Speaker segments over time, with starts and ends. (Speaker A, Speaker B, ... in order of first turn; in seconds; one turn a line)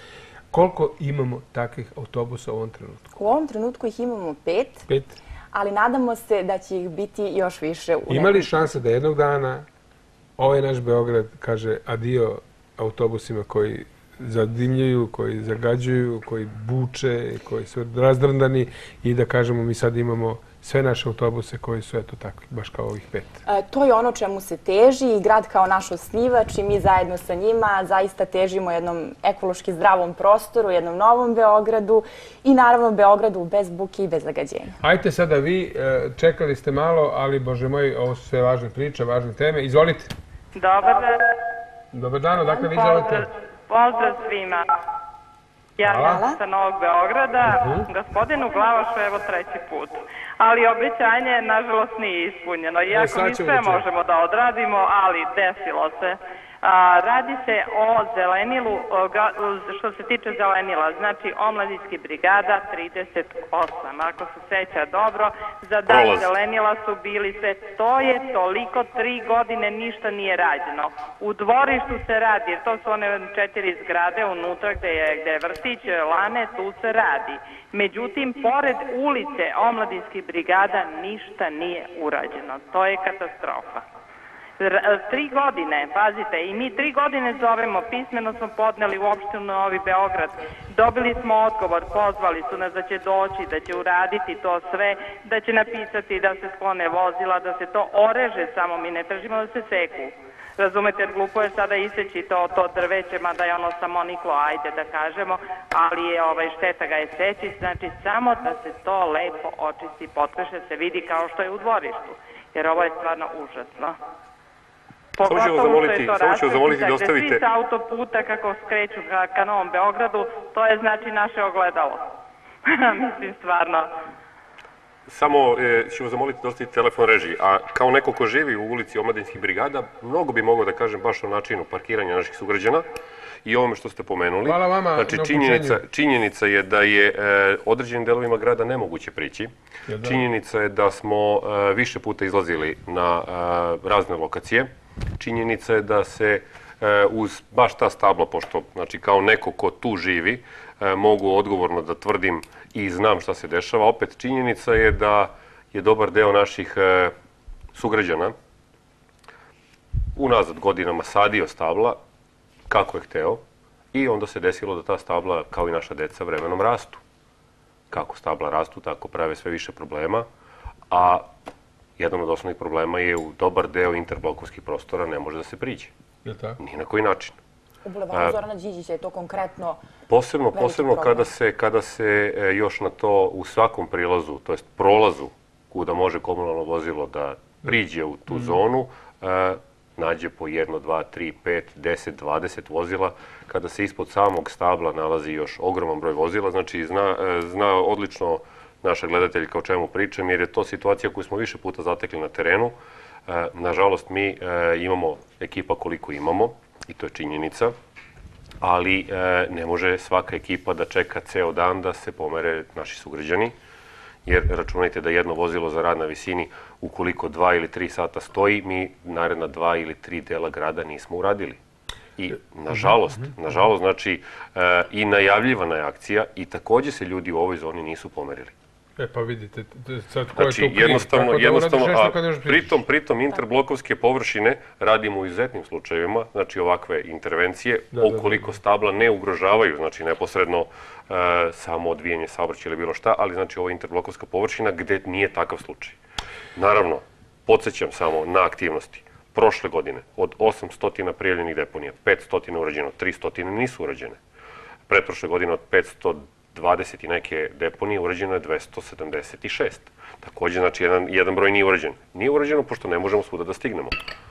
Speaker A: 0.5-3.1
Speaker B: 3.1-4.8
Speaker A: 4.9-5.2
Speaker B: 5.5-8.5
Speaker A: 8.1-9.6
Speaker A: 10.4-23.4
Speaker B: 23.4-34.7
Speaker A: 34.8-40.1
Speaker C: 40.5-41.2
Speaker A: 41.9-43.3
Speaker C: 42.8-43.0
Speaker C: 43.7-44.7
Speaker C: 45.8-83.8
Speaker A: 45.8-46.2
Speaker B: 46.0-46.4
Speaker A: 47.4-47.9
Speaker A: 52.9-53.8
Speaker D: 65.8-66.3
Speaker C: 84.6-114.0
Speaker C: 115.2-122.0
Speaker D: 115.2-117.4
Speaker C: 122.7-123.9
Speaker D: 125.1-132.8
Speaker D: 133.4-139.5
Speaker A: 134.4-135.8
Speaker A: 139.9-140.2
Speaker D: 140.0-157.1
Speaker D: 157.7-158.3
Speaker D: 160.2-162.0
Speaker D: 162.7-163.4
Speaker D: 163.9-167.0
Speaker D: 167.9-170.2
Speaker D: 170.9-171.3
Speaker D: 172.0-175.9
Speaker A: 176.2-176.6
Speaker D: 176.6-177.3
Speaker B: 177.8-179.8
Speaker D: 180.1-202.7
Speaker B: 180.5-181.3
Speaker D: 203.3-207.7
Speaker D: 208.6-213.5
Speaker D: 214.2-221.6
Speaker D: 222.2-228.5
Speaker A: 222.7-223.3
Speaker A: 229.0-232.8
Speaker D: 230.3-246.0
Speaker A: 237.9-238.5
Speaker D: 246.6-254.2
Speaker D: 254.9-263.9